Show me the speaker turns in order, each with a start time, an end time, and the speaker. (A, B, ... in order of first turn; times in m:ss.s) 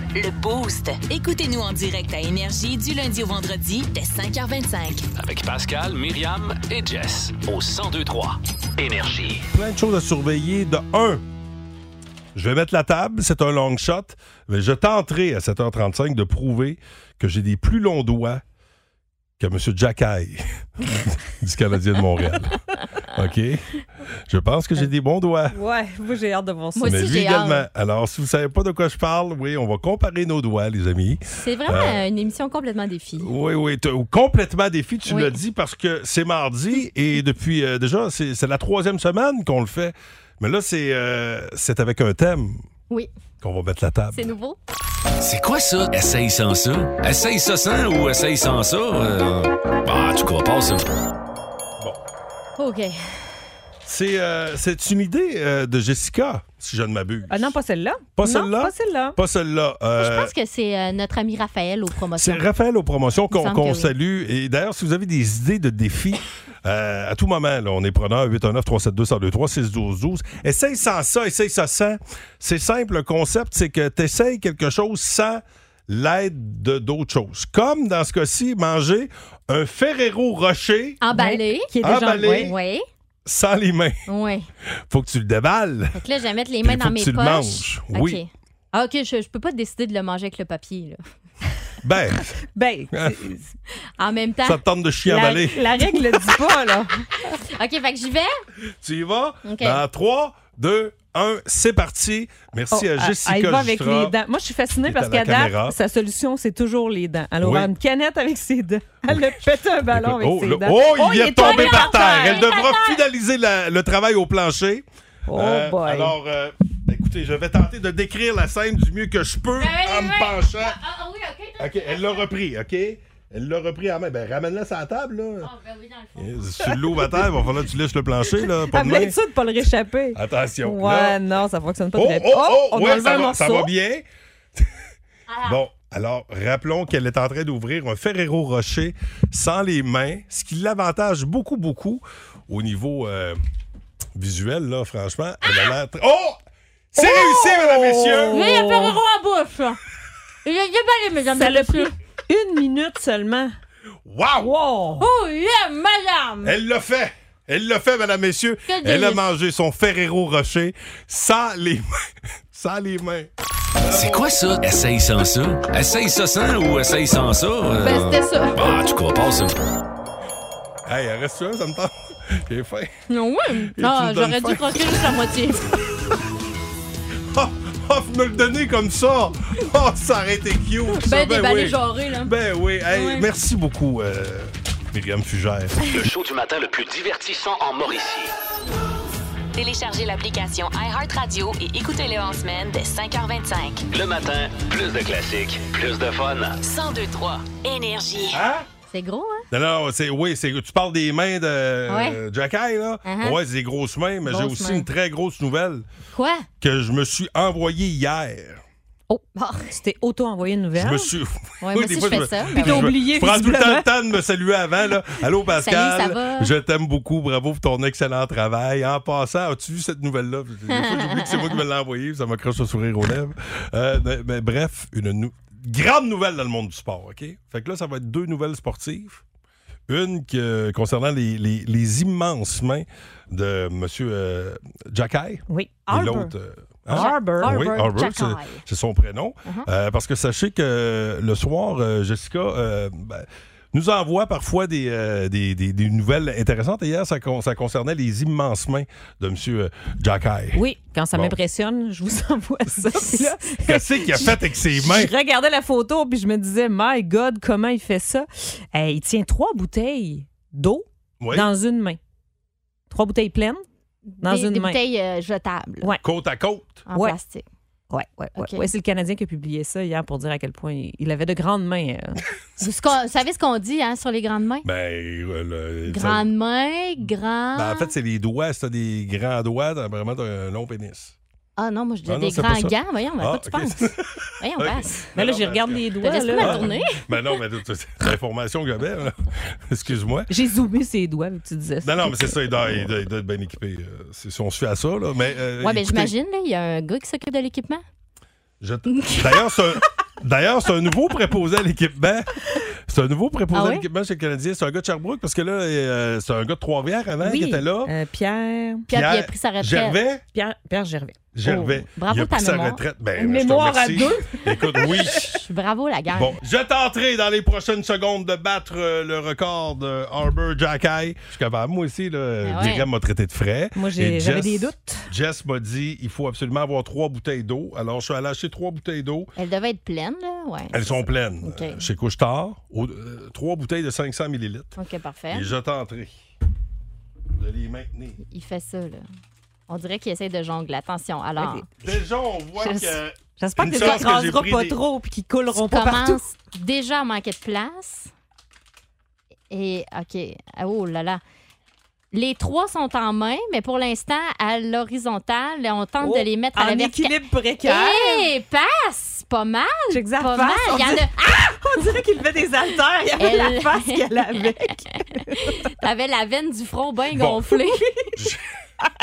0:00.1-0:05.1 A
0:05.2-0:09.5 B
0:09.5-0:11.2 C
0:12.4-0:18.4 C
0:19.4-0:25.6 C
0:25.5-0:27.0 D
0:26.8-0:27.7 E
0:26.8-0:32.0 C
0:31.4-0:33.3 E
0:33.2-0:42.6 C
0:35.1-0:35.4 E
0:43.4-0:44.3 C
0:44.1-0:44.6 E
0:45.2-0:50.8 B
0:52.6-0:53.0 E
0:53.8-0:57.5 C
0:57.3-0:59.2 D
0:58.2-1:00.3 C
1:00.0-1:02.4 E
1:02.2-1:21.0 C
1:03.3-1:03.9 E
1:21.0-1:22.8 E
1:21.1-1:22.5 D
1:21.8-1:22.5 C
1:23.3-1:24.0 C
1:24.1-1:24.5 E
1:24.9-1:26.0 C
1:26.0-1:31.0 E
1:26.6-1:28.2 C
1:31.8-1:32.4 C
1:32.6-1:33.5 D
1:34.0-1:34.6 E
1:34.4-1:36.0 C
1:35.1-1:37.0 D
1:37.5-1:38.3 E
1:38.8-1:44.2 C
1:39.4-1:39.8 E
1:42.7-1:52.5 D
1:44.8-1:45.8 C
1:47.4-1:47.7 C
1:49.1-2:00.8 C
1:51.4-1:53.0 E
1:55.3-1:56.2 D
1:59.6-2:02.3 E
2:01.6-2:05.5 C
2:05.4-2:06.8 E
2:06.2-2:09.2 C
2:08.4-2:13.7 D
2:10.2-2:11.2 C
2:11.9-2:14.0 C
2:15.3-2:15.6 E
2:15.5-2:23.4 C
2:24.2-2:26.4 C
2:27.0-2:28.4 C
2:27.0-2:29.0 D
2:28.3-2:29.8 E
2:30.4-2:31.9 E
2:31.4-2:33.5 D
2:34.1-2:34.5 C
2:34.4-2:35.1 D
2:35.0-2:36.5 E
2:36.4-2:41.9 C
2:38.7-2:39.2 E
2:42.5-2:43.3 C
2:43.8-2:44.4 C
2:43.9-2:49.6 B
2:47.8-2:48.7 E
2:50.9-2:52.9 C
2:53.1-2:55.7 E
2:53.8-2:55.0 C
2:57.3-3:05.8 C
3:01.0-3:02.3 E
3:02.9-3:03.3 E
3:05.8-3:08.3 B
3:09.6-3:13.9 A
3:13.9-3:16.6 B
3:16.6-3:18.4 A
3:18.3-3:18.7 C
3:18.9-3:19.5 E
3:19.5-3:25.8 C
3:21.9-3:22.2 E
3:23.0-3:23.4 E
3:24.3-3:24.9 E
3:26.1-3:26.5 E
3:26.6-3:28.6 C
3:29.1-3:31.1 D
3:29.4-3:29.7 E
3:30.8-3:49.2 C
3:31.6-3:32.9 E
3:32.5-3:33.9 D
3:35.6-3:36.5 E
3:40.7-3:41.5 E
3:49.9-4:11.4 C
3:55.5-3:56.3 D
3:56.9-3:57.6 D
3:56.9-3:58.6 E
4:10.5-4:22.0 D
4:13.0-4:15.1 C
4:21.2-4:21.5 C
4:22.9-4:23.6 D
4:24.1-4:26.0 E
4:24.2-4:24.8 D
4:26.0-4:26.9 C
4:26.9-4:27.5 E
4:26.9-4:27.2 D
4:27.9-4:32.2 D
4:28.4-4:28.7 E
4:32.6-4:34.7 E
4:34.6-4:36.3 C
4:35.9-4:37.9 E
4:37.6-4:41.2 C
4:41.6-4:45.1 E
4:42.1-4:45.8 C
4:45.2-4:46.8 D
4:46.0-4:47.0 E
4:46.4-4:50.3 C
4:50.3-4:52.8 D
4:51.8-4:56.1 C
4:55.6-4:57.8 E
4:58.6-5:07.9 C
4:58.9-4:59.4 E
5:03.5-5:03.9 E
5:07.2-5:08.9 D
5:08.9-5:10.0 E
5:08.9-5:10.2 C
5:10.3-5:11.2 D
5:11.3-5:15.3 C
5:11.5-5:12.8 E
5:13.2-5:15.1 D
5:15.1-5:16.3 E
5:16.1-5:29.3 C
5:22.4-5:22.9 E
5:23.8-5:25.1 D
5:29.4-5:31.8 E
5:30.7-5:34.8 C
5:34.8-5:35.5 E
5:35.3-5:36.2 C
5:37.4-5:38.2 C
5:38.3-5:39.0 E
5:39.7-5:41.6 E
5:41.4-5:41.7 D
5:41.8-5:44.8 C
5:42.6-5:46.2 D
5:43.8-5:44.0 E
5:45.5-5:48.1 E
5:49.5-5:51.2 E
5:52.1-6:01.8 E
5:56.0-5:58.3 D
5:59.9-6:05.7 D
6:03.2-6:08.1 E
6:07.1-6:07.4 C
6:08.2-6:08.4 C